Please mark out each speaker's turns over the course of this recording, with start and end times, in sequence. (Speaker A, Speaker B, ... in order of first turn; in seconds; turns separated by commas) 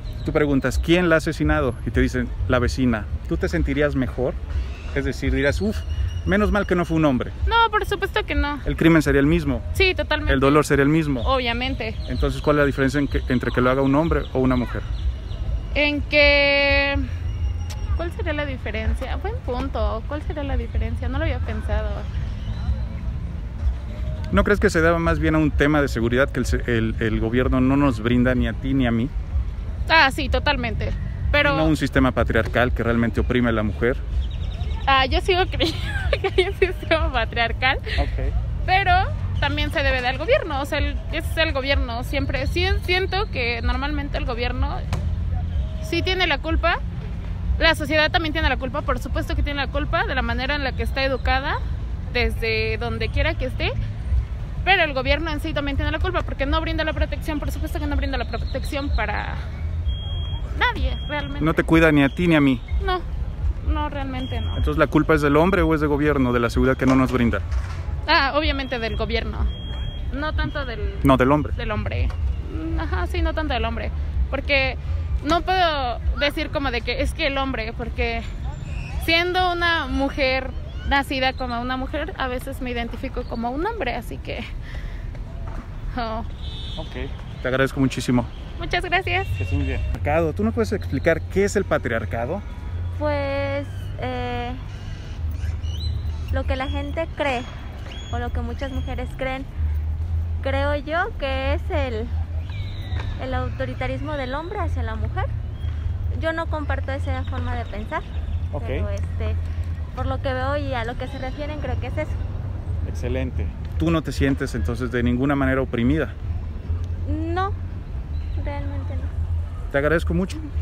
Speaker A: 0.2-4.4, Speaker A: 4.9-7.3, Speaker B: 7.5-8.6, Speaker A: 8.6-9.7, Speaker B: 9.7-10.6, Speaker A: 10.2-11.3, Speaker B: 11.2-12.0, Speaker A: 12.1-14.9, Speaker B: 15.7-17.0, Speaker B: 17.9-22.1, Speaker A: 24.3-29.1, Speaker B: 29.9-31.7, Speaker A: 31.4-34.0, Speaker B: 34.9-38.0, Speaker A: 38.0-38.3, Speaker B: 38.6-44.8, Speaker B: 45.8-46.8, Speaker B: 47.6-51.6, Speaker B: 52.1-53.7, Speaker B: 54.6-59.4, Speaker B: 60.5-61.7, Speaker A: 61.4-62.6, Speaker B: 62.8-63.0, Speaker B: 63.6-64.6, Speaker A: 64.6-67.4, Speaker B: 68.0-69.5, Speaker B: 70.1-78.2, Speaker A: 71.0-71.5, Speaker B: 79.0-84.4, Speaker B: 85.9-86.3, Speaker A: 86.8-88.3, Speaker B: 88.6-89.3, Speaker A: 89.4-92.4, Speaker C: 92.9-94.6, Speaker C: 96.3-97.5, Speaker C: 98.1-99.5, Speaker C: 100.4-102.1, Speaker C: 103.2-105.3, Speaker C: 106.1-108.0, Speaker A: 108.5-108.9, Speaker C: 108.6-109.4, Speaker C: 109.9-112.2, Speaker A: 112.8-116.1, Speaker C: 117.0-117.5, Speaker C: 118.4-119.1, Speaker A: 119.7-120.4